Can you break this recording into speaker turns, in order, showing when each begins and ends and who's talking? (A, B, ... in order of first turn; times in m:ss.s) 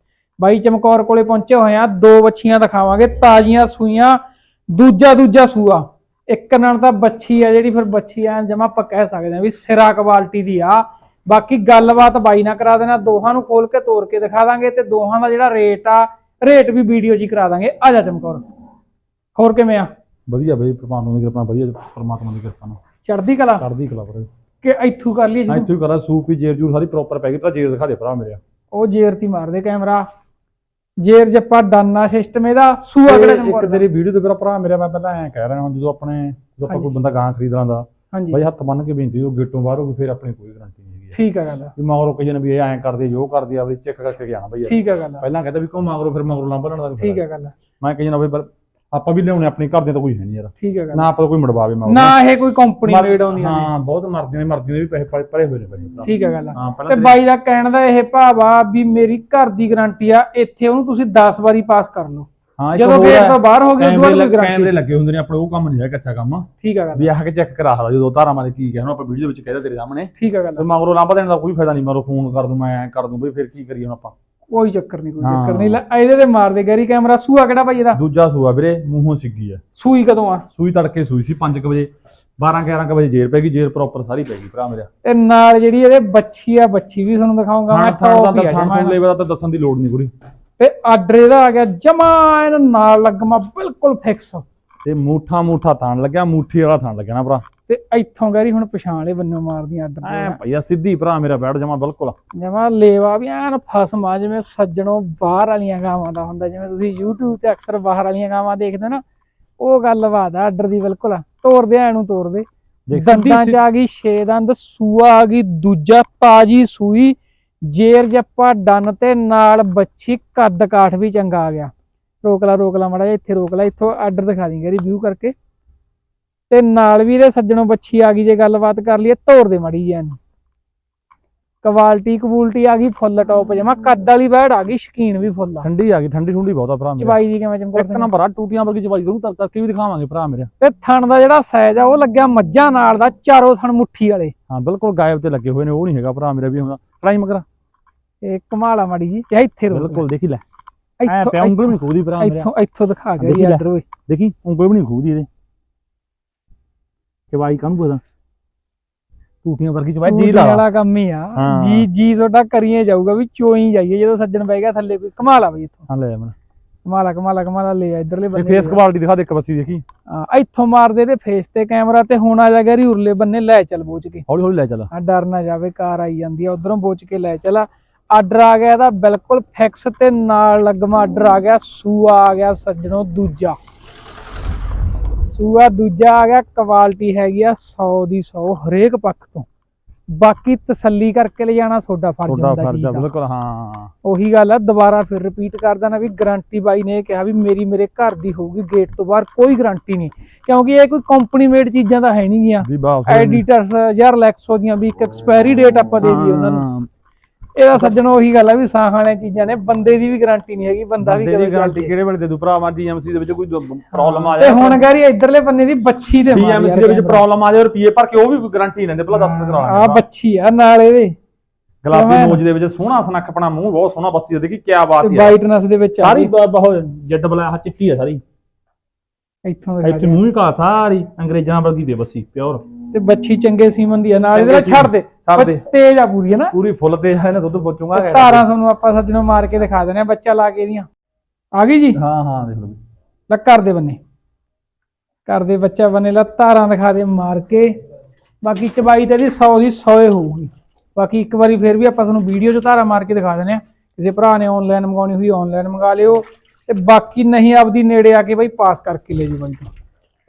0:00.4-0:04.2 A
0:04.7-0:18.4 A
0:19.4-0:19.9 A
0:20.3-0:22.8 B
0:23.0-0:23.6 A
0:23.6-0:24.3 B
0:24.6-0:25.7 A
0:25.5-0:28.4 B
0:28.7-0:30.1 A
0:31.0-0:33.8 A
0:33.0-0:41.2 B
0:38.1-0:38.4 A
0:41.1-0:41.7 A
0:41.8-0:47.2 B
0:44.6-0:45.2 A
0:47.0-0:47.5 A
0:47.8-0:52.2 B
0:50.6-0:51.1 A
0:51.8-0:53.7 A
0:52.8-0:57.2 B
0:56.0-1:04.8 A
1:02.6-1:14.1 B
1:06.6-1:07.1 A
1:10.2-1:10.6 A
1:14.5-1:18.0 A
1:15.2-1:15.8 B
1:17.9-1:19.6 B
1:19.8-1:20.4 A
1:20.5-1:24.9 B
1:25.0-1:29.0 A
1:27.7-1:30.1 B
1:30.6-1:34.4 A
1:34.8-1:37.4 B
1:37.7-1:40.4 A
1:40.0-1:42.1 B
1:42.4-1:49.0 A
1:49.6-2:01.7 A
1:52.9-1:53.6 B
2:02.2-2:05.3 A
2:06.5-2:10.2 A
2:11.6-2:15.7 A
2:15.6-2:17.2 B
2:17.0-2:18.1 A
2:17.7-2:20.5 B
2:20.6-2:24.3 A
2:24.5-2:27.4 B
2:28.2-2:30.0 A
2:29.7-2:30.4 B
2:31.0-2:33.8 A
2:31.0-2:32.5 B
2:33.2-2:35.3 B
2:37.3-2:38.0 B
2:39.4-2:40.6 B
2:40.0-2:45.8 A
2:41.4-2:41.9 B
2:45.9-2:46.3 B
2:46.8-2:48.8 A
2:48.3-2:49.8 B
2:50.1-2:54.2 A
2:54.3-2:54.9 B
2:54.9-3:03.6 A
3:05.3-3:09.5 A
3:10.1-3:13.0 A
3:12.2-3:13.9 B
3:14.0-3:26.6 A
3:22.6-3:23.4 B
3:26.0-3:26.9 B
3:27.6-3:31.9 A
3:31.0-3:34.9 B
3:33.9-3:37.2 A
3:36.3-3:40.0 B
3:39.1-3:41.1 A
3:41.8-3:45.4 B
3:41.9-3:42.4 A
3:45.0-3:46.3 A
3:46.0-3:48.2 B
3:49.4-3:50.2 A
3:49.8-3:52.6 B
3:52.9-3:56.5 A
3:54.3-3:55.6 B
3:56.5-3:58.5 B
3:57.9-4:00.9 A
4:01.5-4:02.0 A
4:01.9-4:02.8 B
4:03.3-4:04.0 A
4:05.2-4:07.8 A
4:08.4-4:19.7 A